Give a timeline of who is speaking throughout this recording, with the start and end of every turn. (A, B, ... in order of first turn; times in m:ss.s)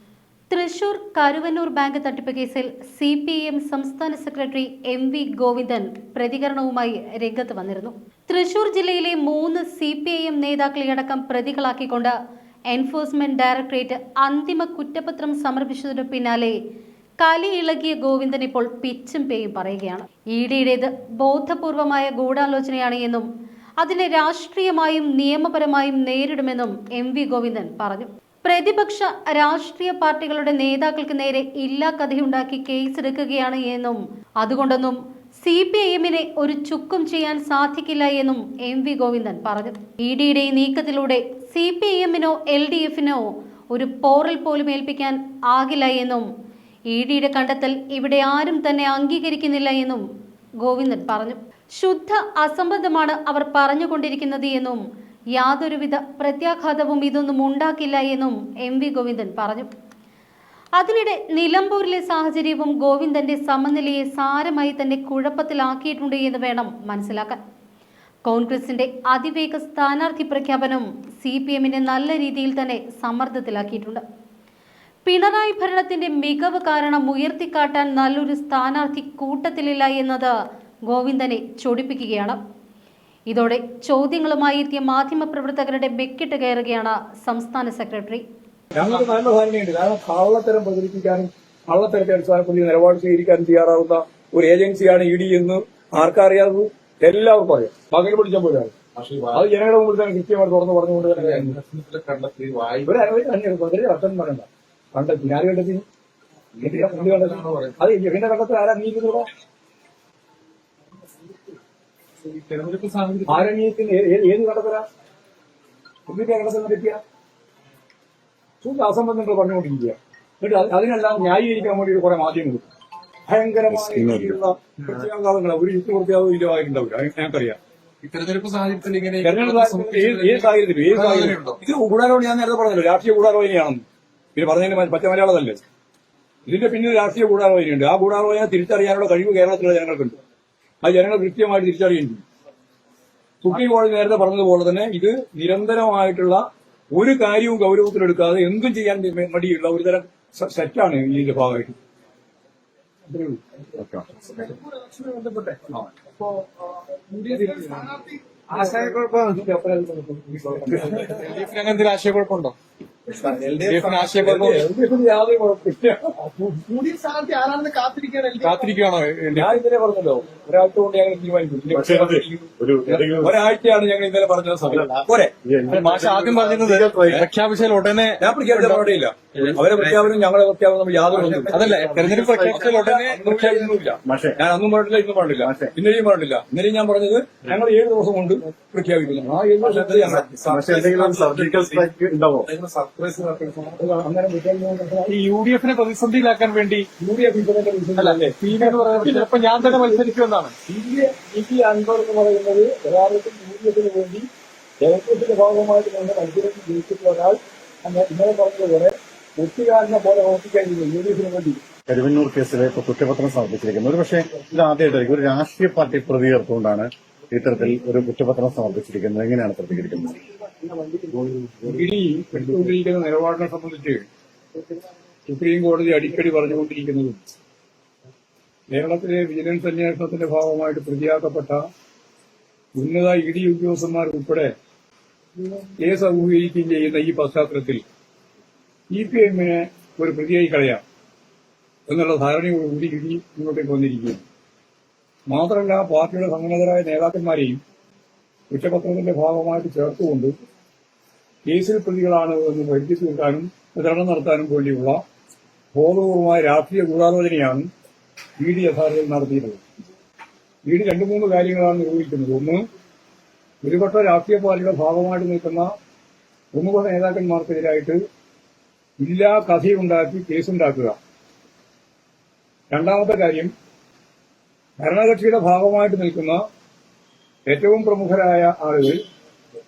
0:00.5-0:12.1 A
0:12.7-0:16.6 A
0:17.2-0:23.3 A
0:23.8-0:46.3 A
0:46.9-0:50.0 A
0:50.6-0:54.8 A
0:55.4-0:59.7 A
1:00.8-1:07.4 A
1:08.2-1:14.0 A
1:15.0-1:20.4 A
1:20.9-1:22.4 A
1:23.3-1:28.2 A
1:28.7-1:38.7 B
1:39.0-1:39.4 C
1:39.3-1:41.6 B
1:41.1-1:43.0 C
1:42.8-1:45.8 B
1:46.6-1:47.8 C
1:46.6-1:49.3 B
1:52.2-1:53.5 C
1:53.3-1:54.8 B
1:56.1-1:57.0 B
1:58.6-2:02.6 B
2:03.3-2:07.6 B
2:03.7-2:04.4 D
2:08.0-2:11.6 C
2:09.2-2:13.8 B
2:14.4-2:15.6 B
2:16.5-2:20.2 B
2:20.8-2:22.2 B
2:23.4-2:31.8 B
2:33.1-2:33.4 B
2:33.8-2:34.0 D
2:34.2-2:38.7 E
2:37.2-2:38.0 B
2:38.5-2:41.4 B
2:40.8-2:42.6 C
2:43.1-2:46.6 B
2:43.2-2:44.7 C
2:46.7-2:48.7 E
2:48.4-2:49.6 C
2:49.3-2:55.3 B
2:51.7-2:53.3 D
2:54.7-2:57.3 D
2:55.7-3:00.2 C
2:58.2-3:01.7 B
3:01.3-3:02.6 D
3:01.4-3:03.8 C
3:02.4-3:10.9 B
3:04.0-3:04.4 D
3:05.4-3:05.7 D
3:09.6-3:11.8 C
3:10.4-3:12.5 D
3:12.4-3:13.1 C
3:13.0-3:15.1 B
3:15.1-3:16.9 C
3:17.0-3:20.0 B
3:18.0-3:20.5 C
3:20.6-3:24.3 B
3:24.8-3:31.6 B
3:31.9-3:40.2 D
3:40.6-3:44.0 B
3:45.3-3:47.2 B
3:48.7-3:51.6 B
3:52.8-3:54.5 B
3:55.8-3:57.8 B
3:58.9-4:00.8 B
4:01.9-4:04.2 B
4:05.3-4:07.6 B
4:08.5-4:10.3 B
4:11.5-4:15.0 B
4:15.7-4:17.7 B
4:18.4-4:19.6 B
4:20.6-4:22.6 B
4:23.6-4:25.7 B
4:26.5-4:28.0 B
4:29.0-4:31.0 B
4:32.7-4:33.5 B
4:34.8-4:36.4 B
4:37.5-4:39.0 B